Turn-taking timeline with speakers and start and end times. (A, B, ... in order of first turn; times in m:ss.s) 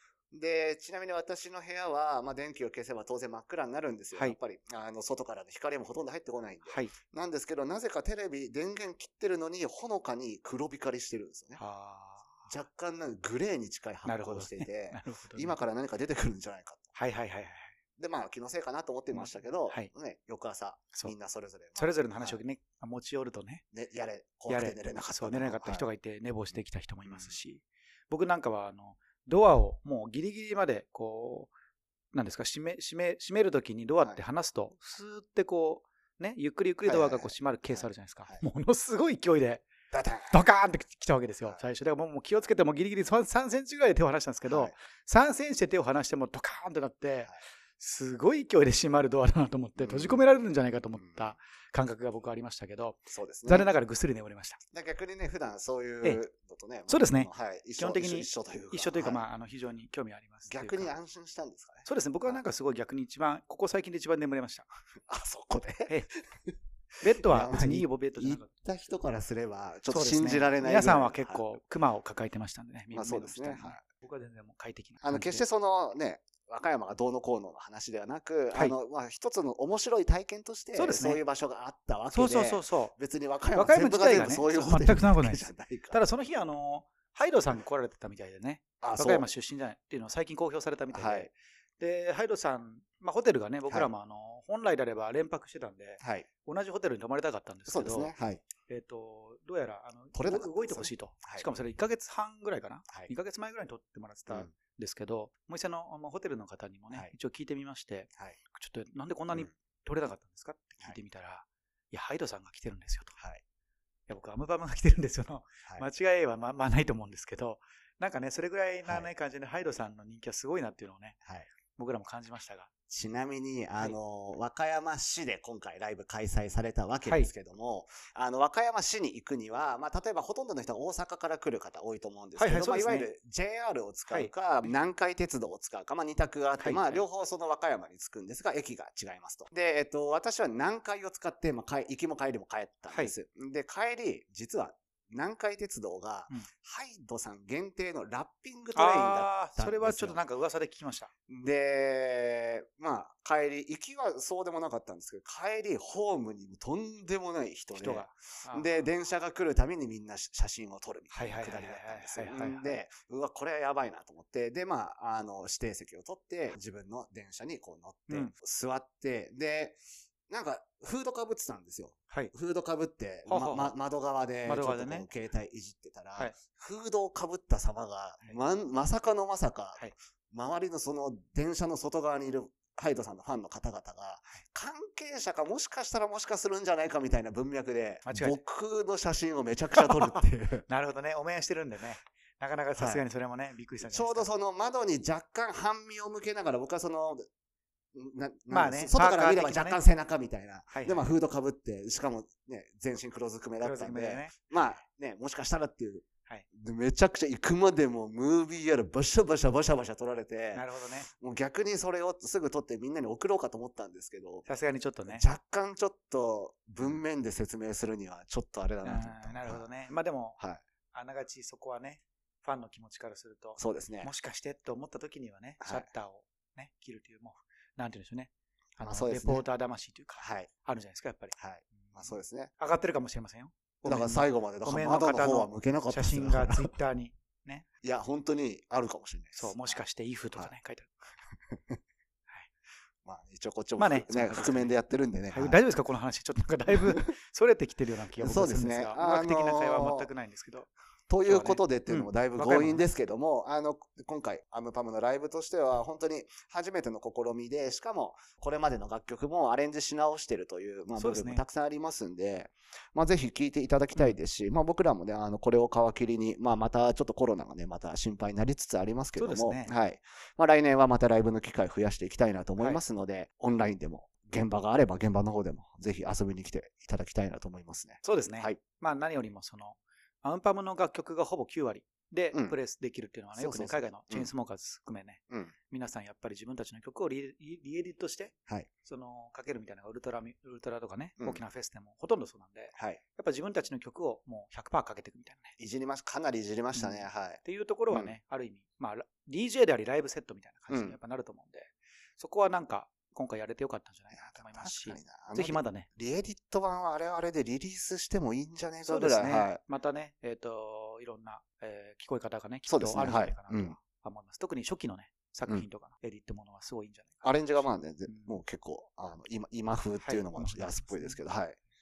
0:00.3-0:11.6 A
0:06.7-0:07.0 B
0:11.6-0:12.5 B
0:12.5-0:16.9 A
0:14.0-0:15.6 B
0:17.0-0:17.7 B
0:18.0-0:22.4 A
0:19.1-0:19.9 B
0:21.8-0:23.6 B
0:23.7-0:25.9 A
0:24.5-0:31.5 B
0:26.5-0:27.4 A
0:32.1-0:39.7 B
0:36.8-0:38.5 A
0:39.9-0:40.4 A
0:40.3-0:54.6 B
0:44.4-0:44.7 A
0:49.8-0:50.2 A
0:50.9-0:51.4 A
0:53.1-0:53.7 A
0:54.7-0:59.2 A
0:56.9-1:01.0 B
1:00.5-1:02.4 A
1:01.9-1:04.7 B
1:05.1-1:06.6 A
1:05.9-1:06.1 B
1:07.0-1:08.9 B
1:07.2-1:11.4 A
1:09.9-1:15.4 B
1:12.9-1:13.8 A
1:15.0-1:26.0 A
1:20.8-1:21.2 B
1:22.1-1:22.9 B
1:23.6-1:38.1 B
1:28.8-1:29.3 A
1:30.9-1:31.3 A
1:36.0-1:36.3 A
1:37.7-1:38.5 A
1:38.7-1:53.2 B
1:40.1-1:41.5 A
1:54.1-2:01.2 B
1:58.8-1:59.1 A
2:01.2-2:01.5 A
2:01.8-2:02.7 B
2:02.9-2:30.2 A
2:12.4-2:13.1 B
2:14.1-2:14.7 B
2:16.6-2:17.1 B
2:28.8-2:31.1 B
2:31.3-3:10.7 A
2:37.7-2:38.8 B
2:41.1-2:42.8 B
2:53.3-2:53.8 B
2:54.4-2:55.1 B
3:08.1-3:08.4 B
3:09.8-3:14.3 B
3:12.8-3:13.0 A
3:13.8-3:17.3 A
3:17.9-3:34.5 A
3:18.5-3:19.8 B
3:20.7-3:21.1 B
3:23.6-3:24.5 B
3:30.5-3:31.1 B
3:34.5-3:35.2 B
3:35.1-3:39.6 A
3:38.8-3:40.4 B
3:40.9-3:57.6 B
3:43.6-3:44.1 A
3:45.6-3:45.9 A
3:48.8-3:49.5 A
3:50.2-3:50.5 A
3:51.4-3:52.5 A
3:53.8-3:56.7 A
3:57.8-4:00.5 A
3:59.4-4:01.0 B
4:01.5-4:01.8 A
4:03.0-4:05.6 A
4:03.8-4:04.8 B
4:05.3-4:10.7 B
4:08.2-4:10.1 A
4:11.1-4:38.6 A
4:11.2-4:12.8 B
4:21.0-4:21.4 B
4:29.2-4:29.8 B
4:38.0-4:48.3 B
4:43.4-4:44.3 A
4:48.8-4:55.6 B
4:52.8-4:53.0 A
4:55.6-4:58.2 A
4:56.8-5:05.9 B
5:00.7-5:01.0 A
5:04.1-5:09.6 A
5:08.8-5:18.4 B
5:12.7-5:13.8 A
5:17.2-5:21.6 A
5:20.0-5:21.2 B